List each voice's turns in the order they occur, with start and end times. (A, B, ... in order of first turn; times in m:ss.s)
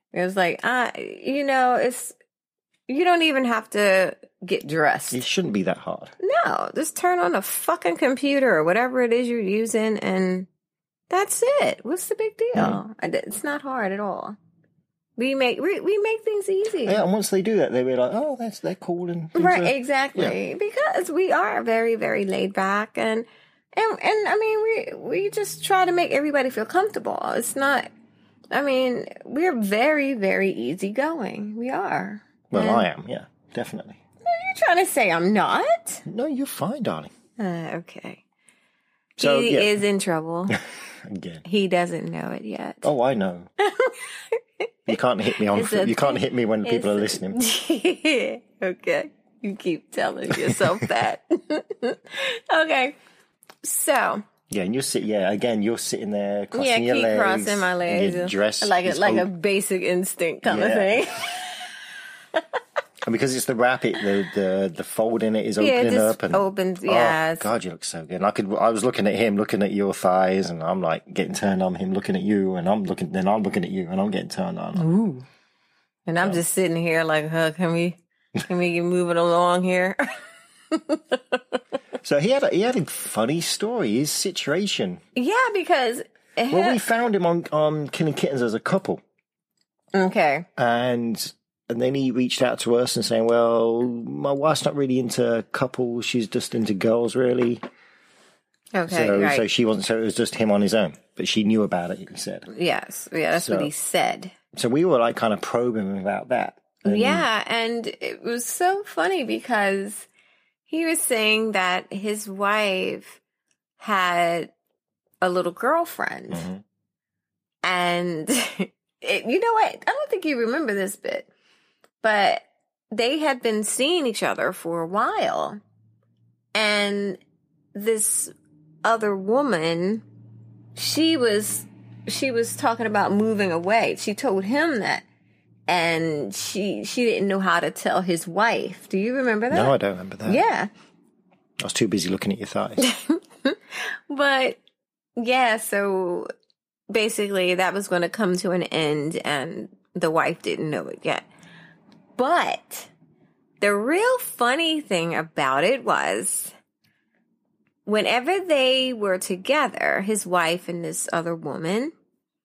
0:00.1-0:02.2 A
0:02.9-0:05.2 A
0:05.1-0:06.1 B
0:06.2-0:10.5 A
0:11.1-0:14.4 A
0:12.5-0:12.8 B
0:15.2-0:17.0 A
0:16.8-0:20.4 B
0:19.3-0:27.9 A
0:28.5-0:32.9 A
0:32.5-0:34.0 B
0:34.2-0:36.0 A
0:36.0-0:37.1 B
0:37.4-0:38.2 A
0:39.2-0:39.8 B
0:39.2-0:40.6 A
0:41.0-0:41.4 B
0:41.4-0:42.9 A
0:42.8-0:43.5 B
0:43.6-0:44.7 A
0:44.9-0:47.4 B
0:45.5-0:53.0 A
0:50.3-0:50.7 B
0:53.6-0:54.2 A
0:54.5-0:59.3 B
0:56.5-1:01.7 A
1:00.4-1:01.0 B
1:03.0-1:14.9 B
1:05.6-1:07.5 A
1:14.8-1:15.2 A
1:16.1-1:20.2 A
1:20.7-1:21.6 A
1:22.0-1:25.0 B
1:25.1-1:26.8 A
1:26.5-1:29.0 B
1:29.9-1:30.5 A
1:30.6-1:37.6 B
1:38.7-1:39.4 A
1:38.9-1:42.5 B
1:42.5-1:44.3 A
1:43.3-1:43.7 B
1:44.5-1:47.2 B
1:46.8-1:50.1 A
1:50.7-1:53.2 A
1:53.8-1:54.5 A
1:55.2-1:56.5 A
1:56.3-1:56.6 B
1:57.6-2:01.3 A
2:02.0-2:05.6 A
2:06.5-2:07.2 A
2:07.7-2:08.3 A
2:08.8-2:10.0 A
2:10.8-2:15.0 A
2:15.7-2:19.7 A
2:19.5-2:20.4 B
2:20.2-2:20.7 A
2:21.6-2:22.8 B
2:22.8-2:24.6 A
2:25.2-2:26.3 A
2:26.9-2:31.2 A
2:32.2-2:32.9 A
2:33.6-2:36.5 A
2:37.8-2:41.9 A